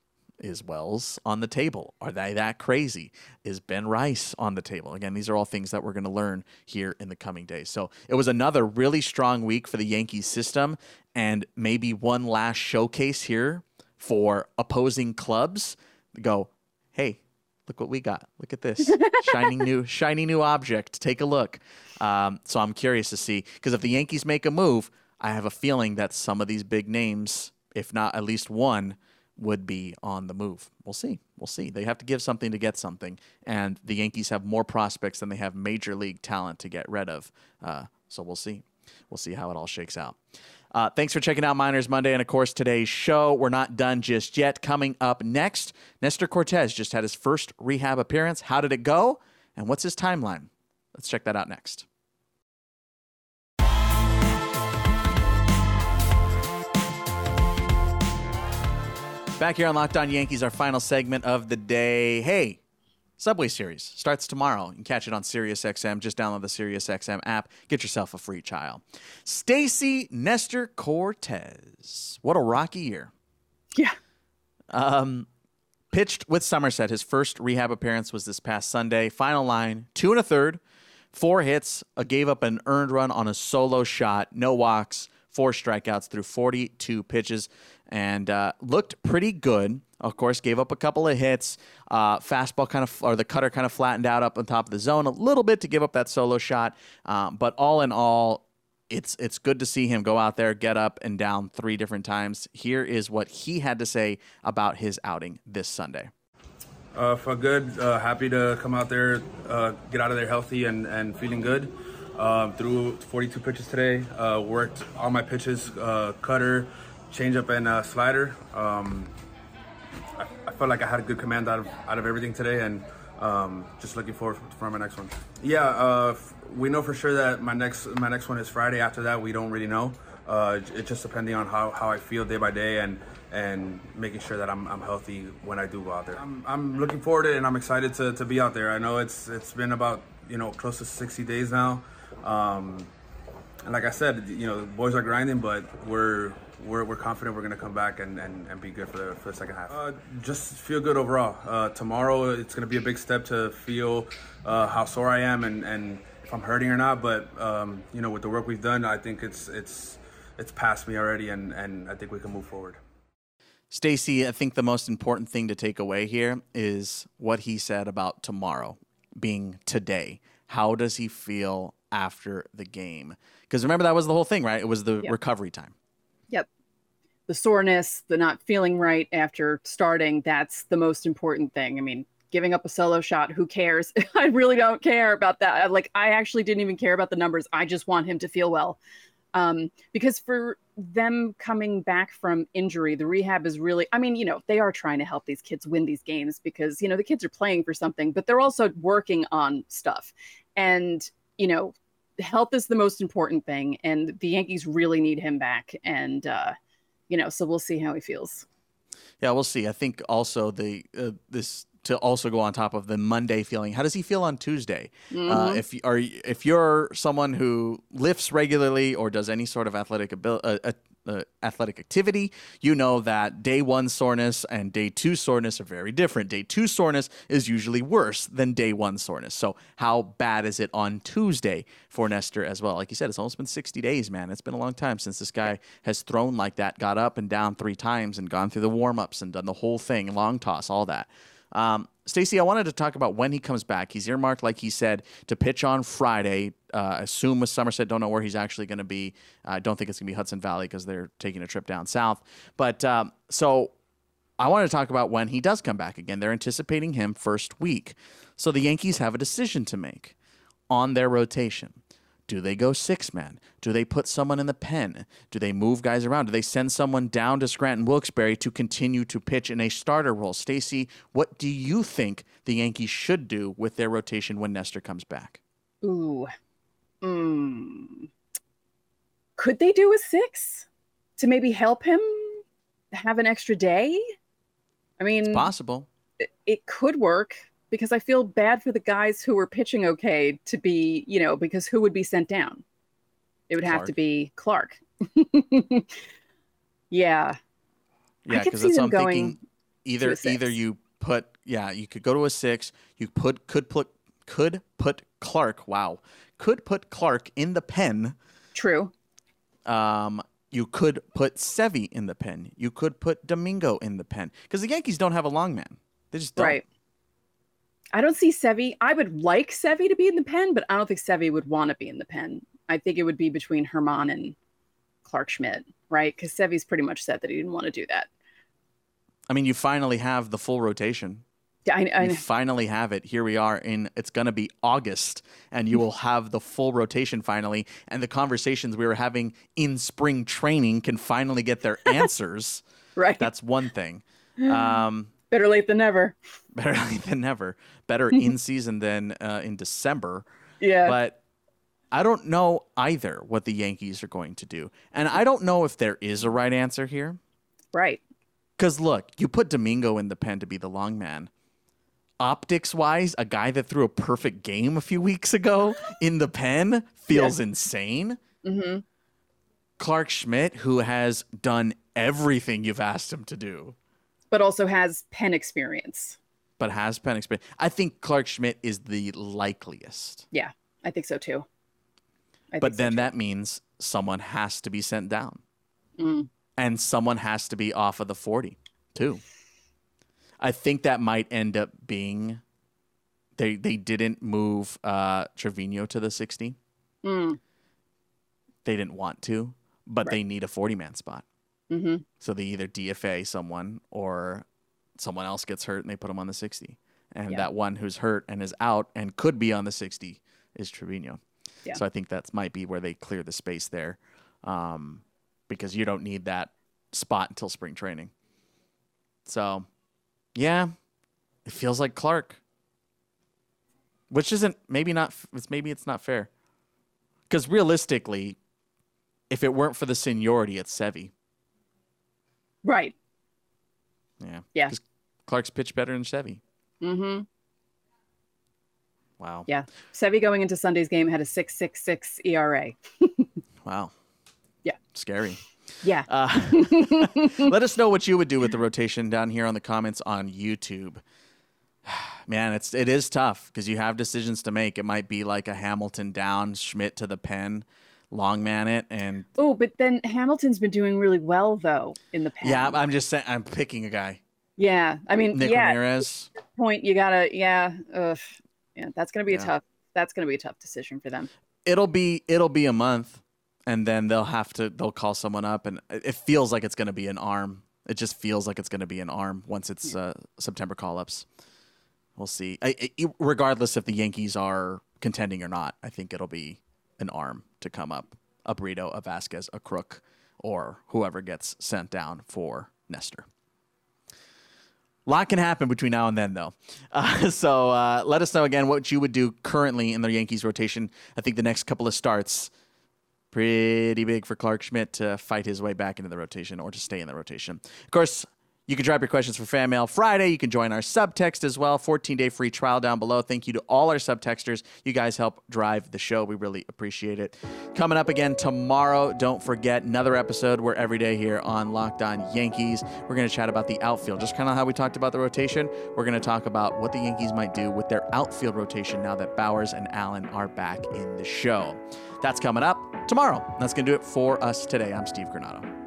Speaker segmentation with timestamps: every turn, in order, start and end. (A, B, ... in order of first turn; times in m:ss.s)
0:00.4-0:40.2 A
0:40.7-0:51.8 A
0:59.4-1:02.6 A
1:03.2-1:13.1 A
1:14.7-1:15.3 A
1:15.9-1:20.6 A
1:21.1-1:46.1 A
1:46.9-1:59.1 B
2:00.2-2:22.9 B
2:23.6-2:42.8 B
2:43.7-2:55.7 A
2:57.3-3:08.8 C
3:09.3-3:26.5 C
3:27.1-3:28.4 C
3:29.2-4:13.7 A
3:35.1-3:35.6 C
4:14.4-4:20.1 A
4:20.7-4:35.4 A
4:35.8-4:36.3 C
4:37.0-4:38.1 C
4:39.4-4:44.0 C
4:45.0-4:45.5 C
4:45.3-4:45.9 A
4:46.2-4:52.6 C
4:53.5-4:56.0 C
4:53.6-4:53.9 A
4:56.9-4:57.4 C
4:58.2-5:08.2 A
4:58.3-4:59.4 C
5:00.0-5:00.6 C
5:08.5-5:08.9 C
5:09.6-5:16.6 A
5:16.4-5:16.6 C
5:17.9-5:24.4 C
5:25.0-5:28.1 C
5:29.3-5:31.2 A
5:31.6-5:32.2 C
5:32.0-5:42.6 A
5:43.0-5:43.3 C
5:43.2-5:45.1 A
5:44.4-5:44.7 C
5:45.3-5:46.2 C
5:46.5-5:50.2 A
5:50.6-5:51.0 C
5:50.8-5:51.2 A
5:51.9-5:57.2 A
5:57.7-5:58.0 C
5:58.6-6:01.3 A
6:02.2-6:08.2 A
6:08.4-6:08.8 C
6:09.8-6:13.7 A
6:14.3-6:16.2 C
6:16.6-6:20.2 A
6:20.3-6:21.4 C
6:22.5-6:23.1 C
6:22.6-6:25.4 A
6:26.0-6:26.3 C
6:26.6-6:29.2 A
6:30.4-6:32.4 A
6:33.4-6:36.6 A
6:37.0-6:37.4 C
6:38.6-6:41.2 A
6:41.7-6:42.0 C
6:42.2-6:44.4 A
6:45.0-6:51.2 A
6:51.7-6:58.1 A
6:59.2-6:59.7 A
7:00.3-7:00.7 A
7:01.4-7:02.4 A
7:04.1-7:06.3 A
7:07.3-7:08.4 A
7:09.3-7:11.1 A
7:12.6-7:12.9 C
7:14.2-7:16.4 A
7:16.8-7:17.2 C
7:19.2-7:19.5 A
7:19.5-7:23.3 C
7:23.6-7:23.9 A
7:24.9-7:25.4 A
7:25.8-7:27.5 C
7:26.0-7:31.0 A
7:31.8-7:39.3 A
7:39.4-7:42.8 C
7:42.4-7:44.2 A
7:44.6-7:45.8 C
7:45.3-7:46.3 A
7:46.4-7:51.3 C
7:51.6-8:01.2 A
8:02.2-8:13.2 A
8:15.0-8:22.5 A
8:23.3-8:55.7 A